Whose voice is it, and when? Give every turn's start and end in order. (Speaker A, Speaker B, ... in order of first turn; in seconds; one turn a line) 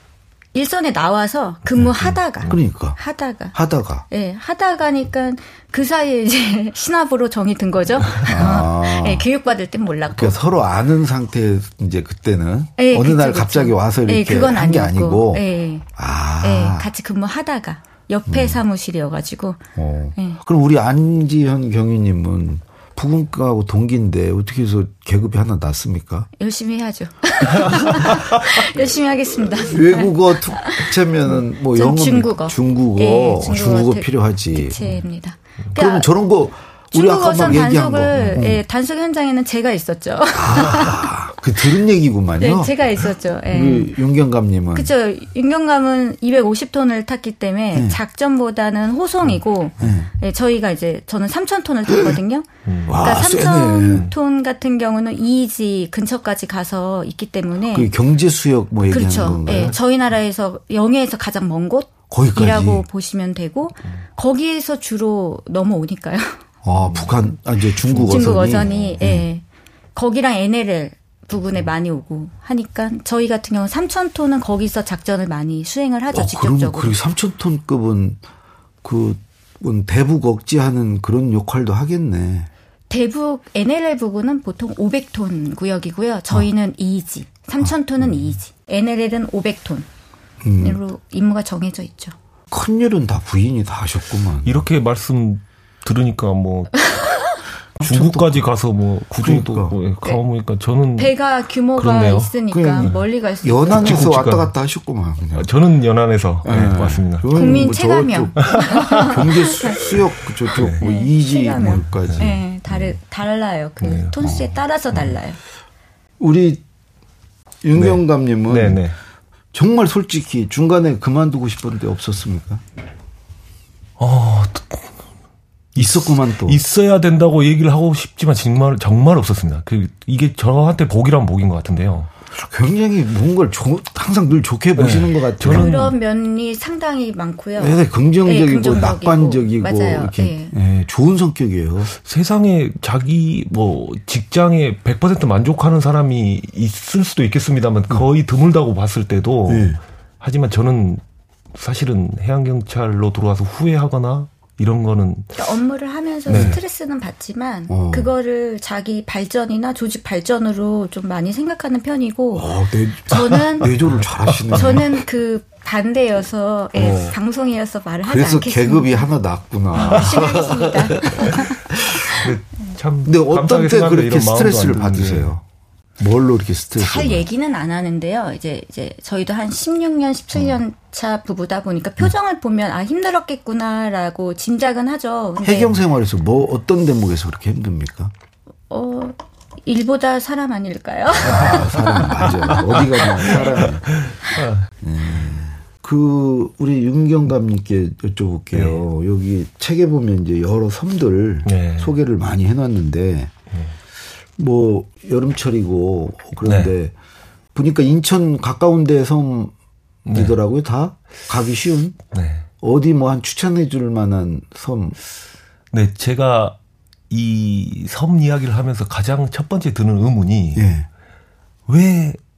Speaker A: 0.5-3.5
Speaker B: 2.5-3.0
Speaker B: 3.5-4.0
Speaker A: 4.1-10.4
Speaker B: 8.2-9.3
Speaker B: 10.1-15.4
Speaker A: 12.8-15.9
Speaker B: 16.0-16.9
Speaker A: 16.4-19.6
Speaker B: 18.3-18.6
Speaker B: 19.8-26.3
Speaker A: 26.4-30.9
Speaker B: 27.6-28.2
Speaker B: 29.6-34.8
Speaker A: 31.7-36.1
Speaker B: 35.7-38.6
Speaker A: 36.9-41.1
Speaker B: 40.4-42.9
Speaker A: 42.4-44.0
Speaker B: 43.5-44.9
Speaker A: 44.7-57.9
Speaker B: 47.7-48.0
Speaker B: 49.8-50.1
Speaker C: 52.7-53.0
Speaker B: 52.9-54.1
Speaker B: 57.7-59.8
Speaker A: 58.9-66.4
Speaker B: 62.1-62.9
Speaker B: 66.6-69.3
Speaker C: 66.7-67.2
Speaker C: 67.8-69.0
Speaker A: 68.0-69.4
Speaker A: 70.0-77.0
Speaker B: 76.1-78.2
Speaker B: 78.8-82.5
Speaker A: 82.9-89.9
Speaker B: 90.4-90.8
Speaker A: 90.6-92.2
Speaker B: 92.5-94.7
Speaker C: 94.5-96.8
Speaker A: 96.9-97.3
Speaker B: 97.8-98.5
Speaker C: 97.8-101.2
Speaker B: 99.2-99.8
Speaker A: 101.0-104.0
Speaker C: 101.8-103.0
Speaker B: 102.5-105.5
Speaker C: 103.7-104.5
Speaker C: 105.3-107.6
Speaker B: 106.4-112.4
Speaker A: 107.3-109.8
Speaker C: 108.5-110.8
Speaker A: 110.8-115.4
Speaker C: 111.7-112.8
Speaker C: 113.8-114.4
Speaker B: 114.2-114.6
Speaker B: 116.2-116.6
Speaker B: 117.6-118.8
Speaker C: 117.8-119.0
Speaker B: 119.5-122.6
Speaker C: 124.0-124.9
Speaker B: 125.8-126.6
Speaker C: 125.8-132.1
Speaker B: 132.3-135.7
Speaker C: 134.8-135.9
Speaker A: 135.5-140.6
Speaker B: 137.6-141.9
Speaker C: 142.0-151.0
Speaker B: 149.5-149.8
Speaker C: 151.6-155.4
Speaker A: 155.4-163.7
Speaker C: 156.3-156.6
Speaker B: 156.3-156.6
Speaker B: 157.7-158.1
Speaker B: 162.3-165.0
Speaker C: 163.3-163.7
Speaker C: 164.3-164.8
Speaker A: 164.5-169.1
Speaker B: 166.8-167.2
Speaker B: 168.1-172.3
Speaker A: 169.7-171.6
Speaker C: 170.9-175.3
Speaker B: 173.1-175.4
Speaker B: 176.0-177.2
Speaker A: 176.8-185.8
Speaker B: 185.4-188.1
Speaker A: 188.7-193.7
Speaker B: 191.2-194.0
Speaker C: 191.5-191.8
Speaker C: 192.4-194.7
Speaker B: 194.8-203.3
Speaker C: 198.5-198.8
Speaker C: 201.5-201.9
Speaker B: 204.4-206.9
Speaker C: 206.4-206.7
Speaker B: 207.5-209.5
Speaker C: 210.1-210.4
Speaker B: 210.1-212.0
Speaker C: 212.1-212.5
Speaker B: 212.6-215.0
Speaker C: 215.7-216.6
Speaker C: 217.1-220.7
Speaker B: 220.6-220.9
Speaker C: 221.7-222.2